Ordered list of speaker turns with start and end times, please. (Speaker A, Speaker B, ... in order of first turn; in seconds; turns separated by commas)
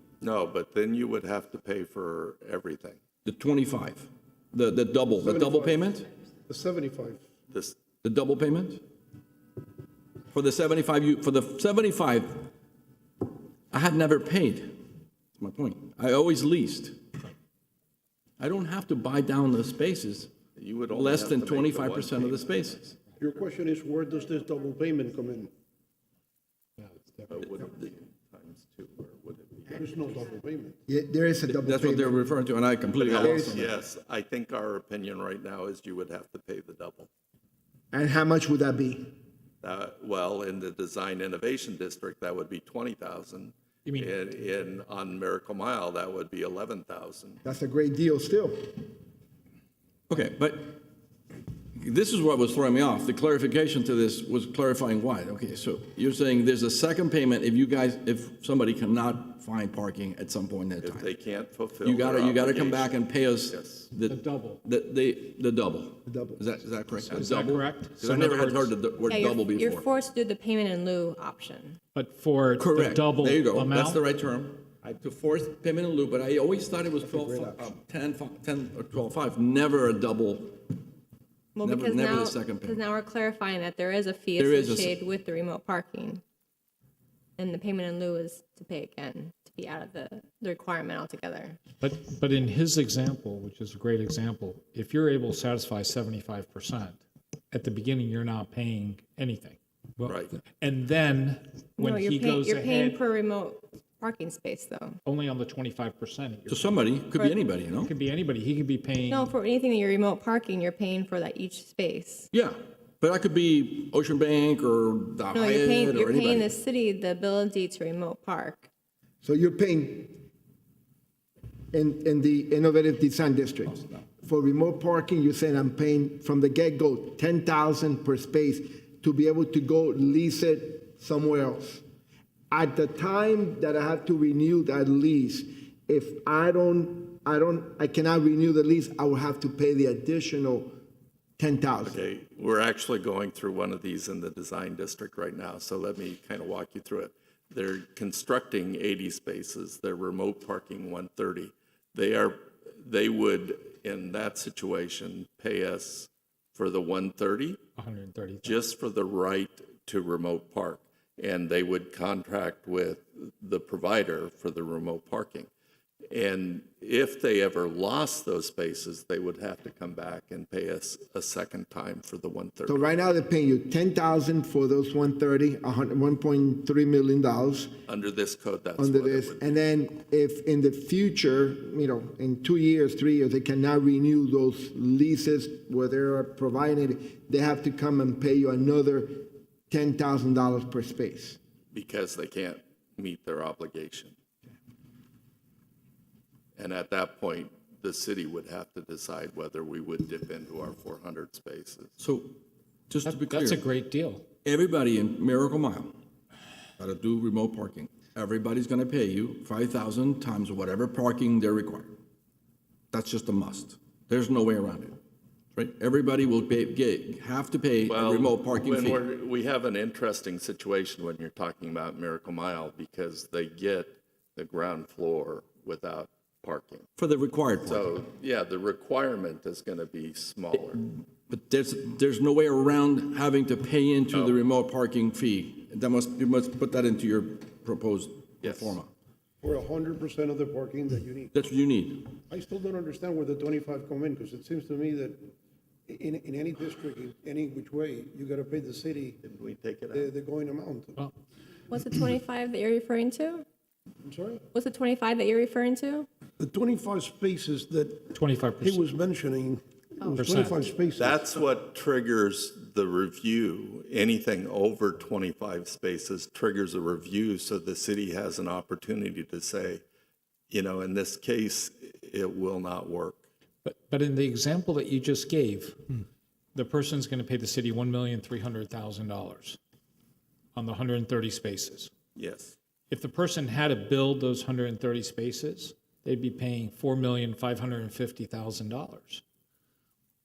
Speaker A: 0.2-3.0, Speaker B: 3.2-6.0, Speaker C: 5.2-5.9, Speaker C: 6.5-7.3, Speaker A: 7.5-7.8, Speaker B: 8.0-8.8, Speaker B: 10.3-12.5, Speaker B: 13.7-14.8, Speaker B: 15.4-17.0, Speaker B: 18.4-20.3, Speaker A: 20.6-22.7, Speaker B: 20.9-23.0, Speaker C: 23.2-25.5, Speaker A: 27.3-29.9, Speaker C: 29.7-30.8, Speaker D: 30.9-32.2, Speaker B: 31.4-33.7, Speaker A: 32.9-37.1, Speaker D: 33.1-33.6, Speaker D: 37.9-39.1, Speaker A: 39.6-47.4, Speaker E: 43.9-44.2, Speaker D: 47.4-48.8, Speaker B: 50.1-50.8, Speaker B: 51.7-61.1, Speaker A: 60.8-63.9, Speaker B: 61.8-69.9, Speaker E: 64.1-64.6, Speaker D: 66.0-66.4, Speaker E: 67.1-68.8, Speaker A: 67.1-67.4, Speaker F: 69.1-71.8, Speaker E: 71.9-74.0, Speaker B: 72.6-80.6, Speaker D: 77.2-77.5, Speaker F: 81.5-86.2, Speaker B: 81.6-82.8, Speaker B: 84.4-85.0, Speaker F: 87.4-91.6, Speaker E: 91.8-97.0, Speaker E: 97.5-103.0, Speaker A: 100.1-100.3, Speaker F: 101.8-105.0, Speaker E: 105.0-106.9, Speaker B: 106.5-107.9, Speaker E: 107.8-109.3, Speaker F: 109.1-112.3, Speaker B: 112.3-116.5, Speaker F: 115.3-118.7, Speaker D: 119.2-120.2, Speaker D: 121.7-131.8, Speaker B: 123.7-124.0, Speaker D: 132.5-140.7, Speaker D: 141.4-142.0, Speaker A: 141.8-157.6, Speaker E: 157.8-158.6, Speaker A: 158.4-165.5, Speaker A: 166.1-172.8, Speaker D: 172.7-177.7, Speaker A: 177.9-179.5, Speaker D: 178.8-191.4, Speaker A: 191.7-194.2, Speaker A: 196.6-201.9, Speaker B: 202.0-203.6, Speaker E: 203.0-204.2, Speaker B: 204.4-205.9, Speaker B: 206.8-211.9, Speaker B: 212.9-215.0, Speaker B: 215.5-219.0, Speaker A: 217.8-226.9, Speaker B: 227.0-228.0, Speaker A: 227.6-230.8, Speaker B: 230.6-238.9, Speaker A: 234.1-234.4, Speaker A: 238.4-238.8, Speaker C: 239.4-241.3, Speaker B: 241.3-242.2, Speaker C: 242.3-245.3, Speaker C: 245.9-249.2, Speaker A: 249.2-250.1, Speaker C: 249.9-251.0, Speaker F: 251.7-253.4, Speaker C: 254.0-254.4, Speaker F: 254.5-256.1, Speaker C: 256.4-261.4, Speaker E: 258.1-258.8, Speaker E: 260.1-260.7, Speaker A: 261.0-269.8, Speaker A: 270.5-273.2, Speaker E: 273.6-279.6, Speaker E: 280.5-281.9, Speaker A: 282.1-282.6, Speaker E: 282.9-289.2